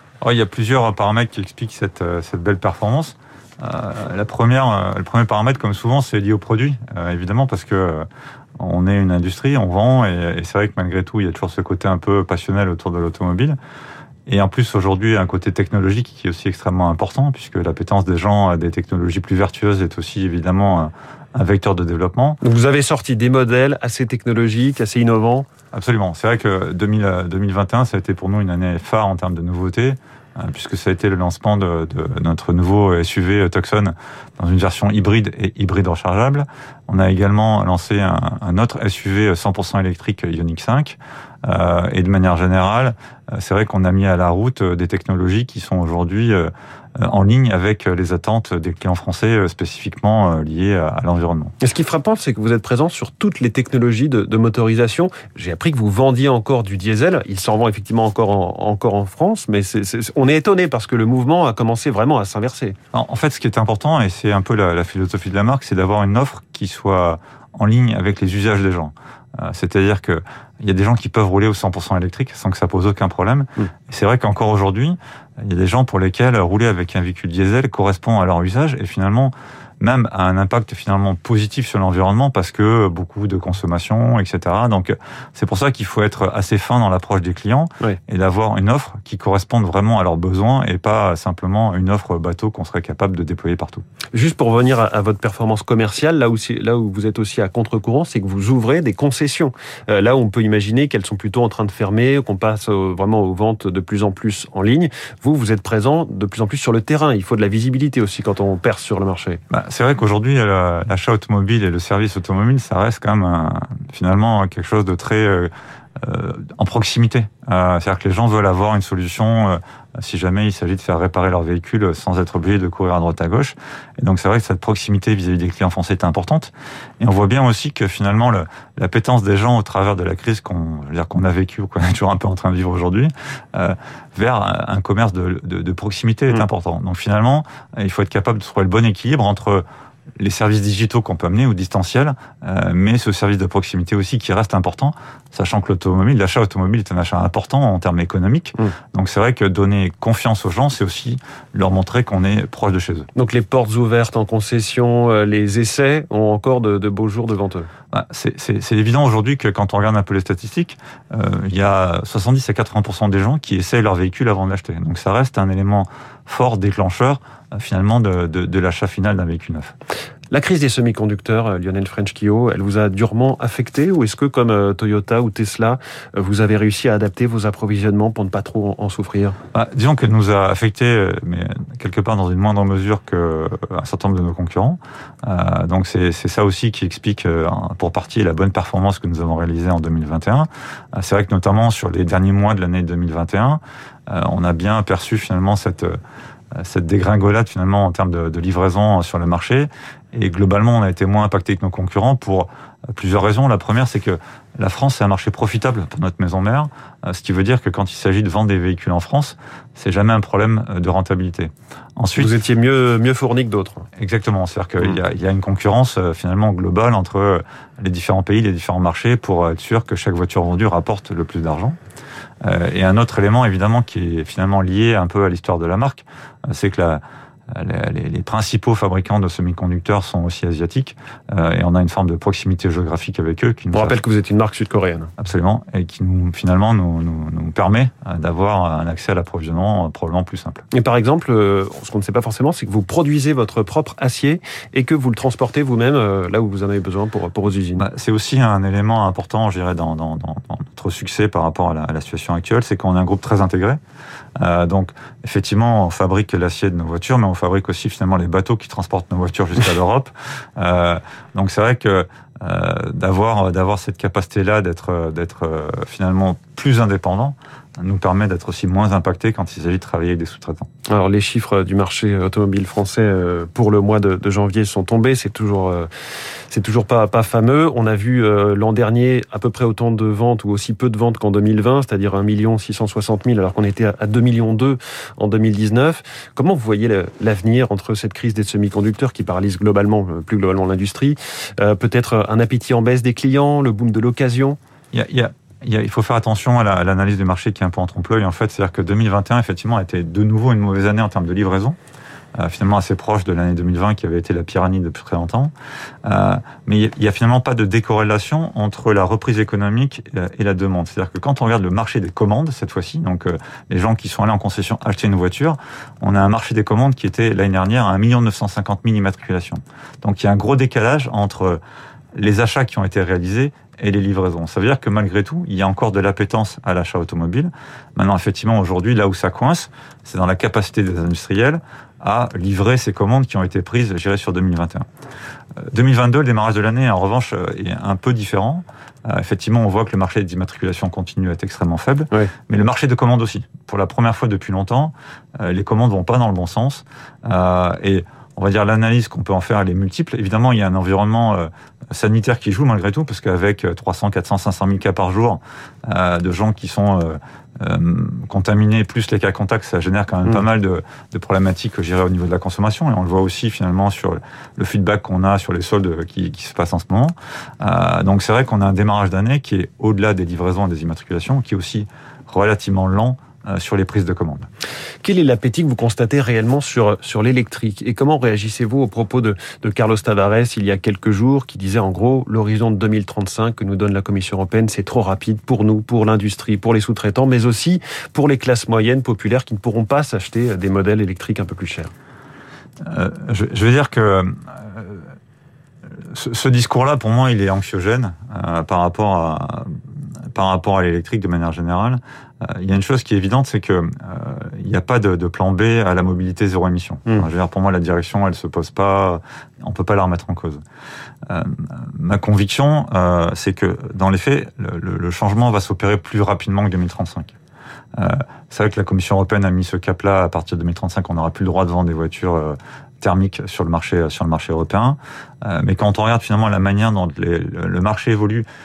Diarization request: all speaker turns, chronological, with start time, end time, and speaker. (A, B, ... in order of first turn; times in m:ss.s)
0:00.2-0:08.1 A
0:08.6-0:13.6 A
0:14.3-0:22.4 A
0:22.4-0:25.5 B
0:25.7-0:51.5 A
0:51.6-1:02.8 B
1:02.9-1:33.8 A
1:34.1-1:49.4 B
1:49.5-2:19.6 A
2:20.2-2:33.1 A
2:33.2-2:37.7 B
2:37.9-2:49.7 A
2:50.3-2:59.4 B
2:59.5-3:16.0 A
3:16.6-3:32.3 A
3:32.2-3:33.9 B
3:34.0-3:41.8 A
3:42.4-3:54.0 A
3:53.7-3:55.1 B
3:55.2-4:00.6 A
4:00.7-4:07.8 B
4:07.8-4:13.8 A
4:14.4-4:30.7 A
4:30.9-4:35.9 B
4:36.5-4:54.6 B
4:54.9-5:01.8 A
5:02.4-5:05.5 A
5:06.0-5:21.6 A
5:22.2-5:34.9 A
5:35.6-6:14.5 A
6:15.0-6:31.9 B
6:32.8-6:35.1 A
6:36.1-6:39.8 A
6:40.3-6:50.6 A
6:51.3-6:57.3 A
6:58.0-7:08.5 A